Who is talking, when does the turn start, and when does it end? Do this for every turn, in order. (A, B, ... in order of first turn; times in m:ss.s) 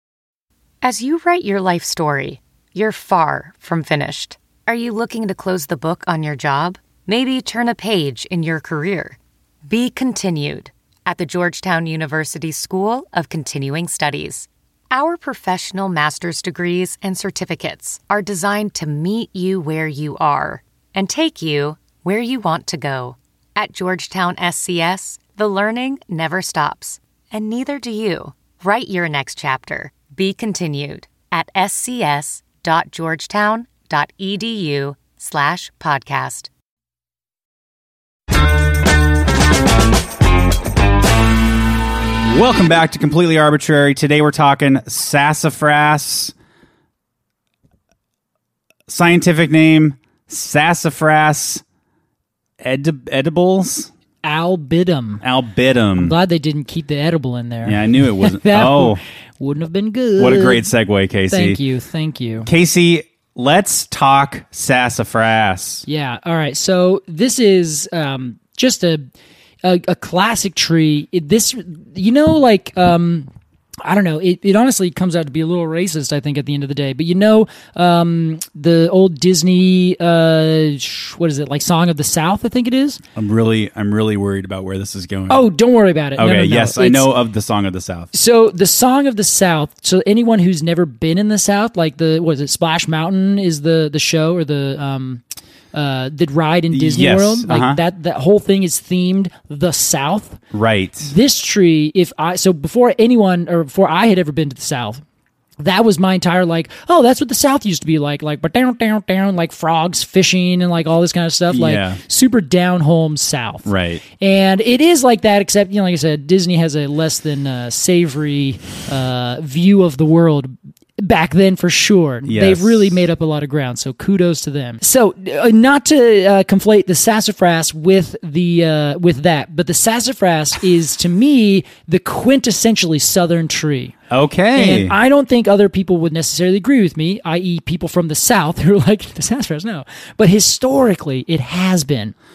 0:00.8-0:36.5 A
0:42.2-0:46.3 B
0:48.9-0:51.6 B
0:52.6-0:53.9 B
0:54.2-0:55.2 C
0:55.2-0:56.1 B
0:56.0-1:00.7 C
0:57.6-0:59.0 B
1:00.2-1:01.6 B
1:01.3-1:02.5 C
1:02.4-1:05.8 B
1:05.8-1:09.1 C
1:09.6-1:13.3 C
1:13.8-1:23.0 C
1:23.2-1:25.4 B
1:25.3-1:27.1 C
1:26.2-1:28.1 B
1:28.1-1:35.2 C
1:35.7-1:40.4 C
1:36.7-1:37.8 B
1:40.5-1:41.1 B
1:41.0-1:45.0 C
1:45.6-2:14.0 C
1:51.5-1:52.0 B
1:53.6-1:54.0 B
2:02.2-2:03.0 B
2:14.1-2:14.9 B
2:14.5-2:22.1 C